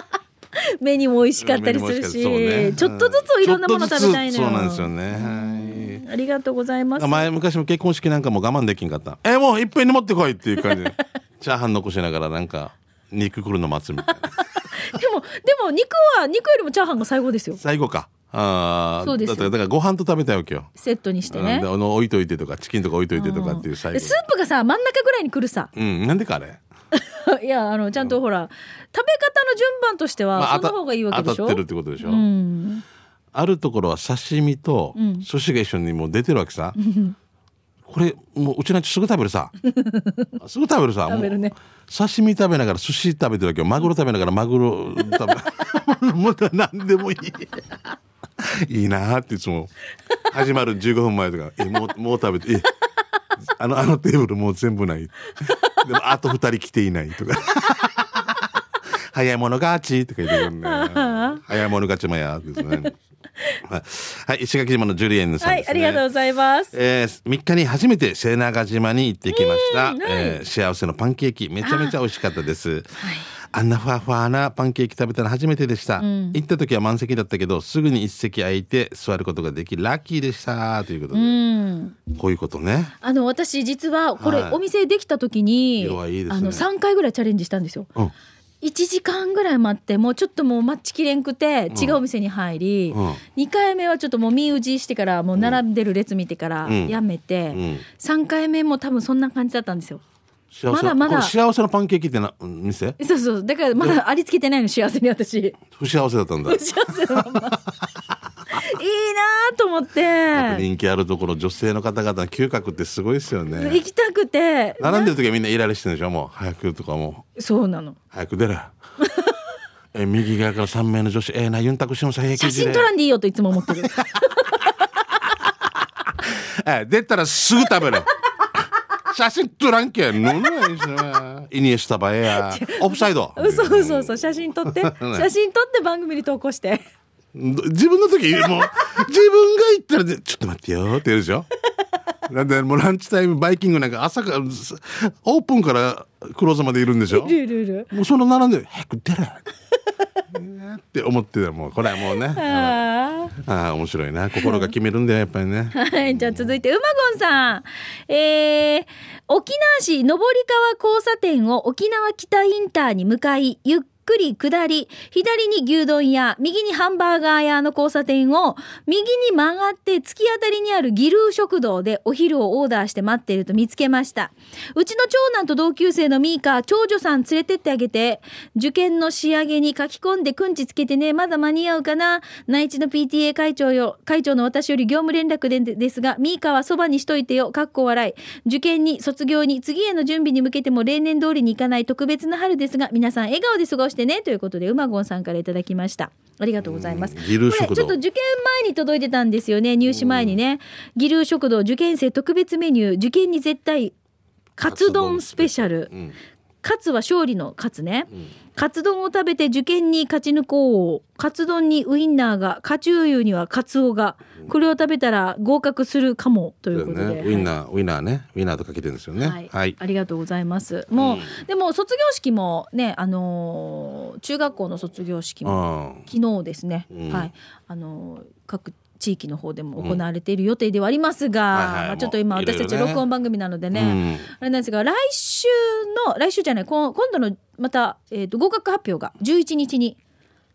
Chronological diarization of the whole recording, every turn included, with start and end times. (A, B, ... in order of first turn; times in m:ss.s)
0:00.6-0:07.3 A
0:01.4-0:06.0 B
0:07.0-0:14.4 B
0:14.1-0:17.6 A
0:17.6-0:20.7 B
0:19.0-0:19.5 A
0:20.8-0:21.7 A
0:21.3-0:24.2 B
0:23.1-0:25.7 A
0:25.7-0:26.6 B
0:26.9-0:32.8 A
0:30.3-0:32.3 B
0:33.3-0:36.8 B
0:35.0-0:35.2 A
0:36.8-0:37.1 A
0:37.8-0:39.5 B
0:39.6-0:40.3 A
0:40.4-0:47.7 B
0:41.1-0:41.5 A
0:48.4-0:49.7 B
0:50.3-0:52.7 B
0:53.4-0:58.5 B
0:55.5-0:55.8 A
0:59.1-1:02.9 B
1:00.3-1:01.4 A
1:02.6-1:02.9 A
1:03.6-1:06.0 B
1:05.4-1:06.7 A
1:06.7-1:21.4 B
1:09.3-1:10.4 A
1:11.6-1:12.0 A
1:13.0-1:13.3 A
1:16.0-1:16.4 A
1:21.1-1:22.0 A
1:22.1-1:22.9 B
1:23.0-1:27.9 A
1:24.2-1:24.6 B
1:25.8-1:26.6 B
1:28.6-1:40.0 A
1:31.7-1:32.0 B
1:32.9-1:33.2 B
1:36.6-1:37.0 B
1:37.5-1:37.8 B
1:40.5-1:43.0 B
1:40.7-1:41.3 A
1:43.0-1:45.6 A
1:45.7-1:47.4 B
1:46.4-1:47.6 A
1:48.5-1:50.6 A
1:50.3-1:53.8 B
1:53.5-1:55.1 A
1:54.8-1:57.2 B
1:57.4-1:58.0 A
1:58.1-1:58.7 B
1:59.0-1:59.4 A
1:59.9-2:02.9 B
2:02.4-2:05.0 A
2:03.7-2:04.0 B
2:06.2-2:08.1 B
2:09.1-2:15.3 B
2:12.3-2:16.8 A
2:17.3-2:21.5 B
2:22.3-2:27.4 B
2:27.1-2:27.9 A
2:27.9-2:29.4 B
2:30.3-2:36.5 B
2:32.3-2:33.3 A
2:34.4-2:34.7 A
2:35.7-3:23.9 A
3:16.6-3:18.0 B
3:19.8-3:20.4 B
3:24.6-3:25.9 A
3:24.6-3:26.1 B
3:26.6-3:37.5 A
3:36.7-3:39.7 B
3:39.2-4:00.0 A
3:40.9-3:41.3 B
3:45.4-3:46.0 B
3:46.9-3:47.3 B
3:51.5-3:53.0 B
3:53.7-3:54.3 B